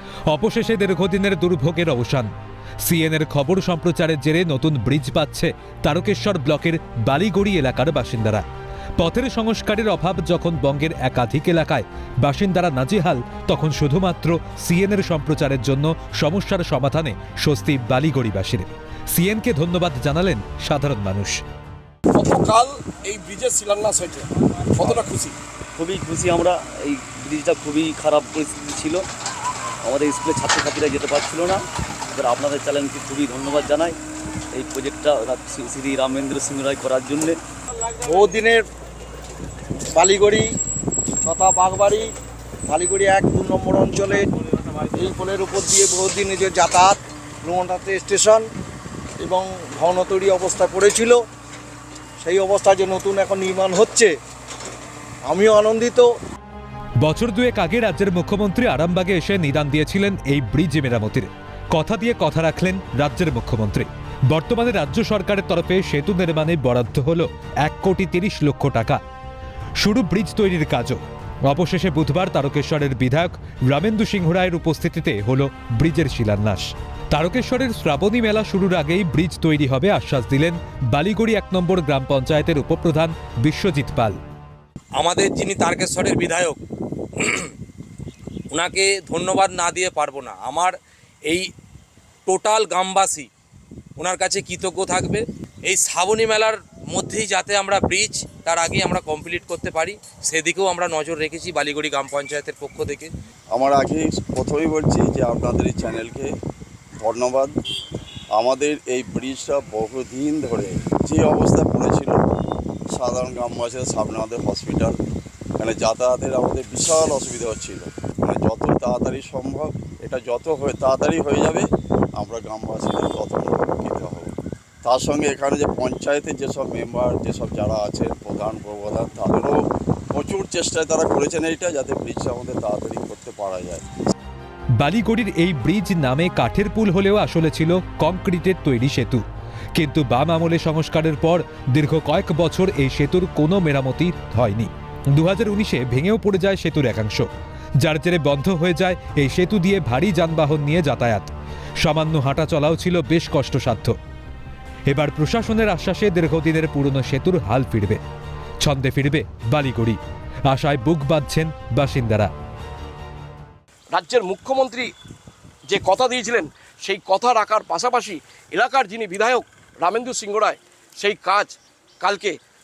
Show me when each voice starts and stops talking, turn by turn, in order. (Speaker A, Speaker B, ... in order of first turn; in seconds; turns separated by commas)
Speaker A: 0.3-2.3, Speaker A: 2.9-8.4, Speaker A: 9.0-21.4, Speaker B: 22.1-25.4, Speaker C: 25.8-29.0, Speaker C: 29.8-34.0, Speaker C: 34.5-37.4, Speaker D: 38.0-38.7, Speaker D: 39.9-40.5, Speaker D: 41.2-42.1, Speaker D: 42.7-44.3, Speaker D: 44.9-48.5, Speaker D: 49.2-51.2, Speaker D: 52.2-54.2, Speaker D: 55.3-56.1, Speaker A: 57.0-69.0, Speaker A: 69.8-84.2, Speaker E: 85.0-86.6, Speaker E: 87.2-87.5, Speaker E: 88.5-90.8, Speaker E: 92.3-93.3, Speaker E: 94.0-103.1, Speaker F: 103.5-106.3, Speaker F: 107.0-107.5, Speaker F: 108.3-112.2, Speaker F: 112.9-115.0, Speaker F: 115.6-124.3, Speaker F: 124.8-129.6, Speaker F: 130.1-133.8, Speaker A: 134.8-139.2, Speaker A: 139.8-147.3, Speaker A: 147.8-151.3, Speaker A: 151.8-153.9, Speaker A: 154.9-158.0, Speaker A: 158.6-160.0, Speaker A: 160.5-162.3, Speaker B: 163.9-164.9, Speaker B: 165.7-172.4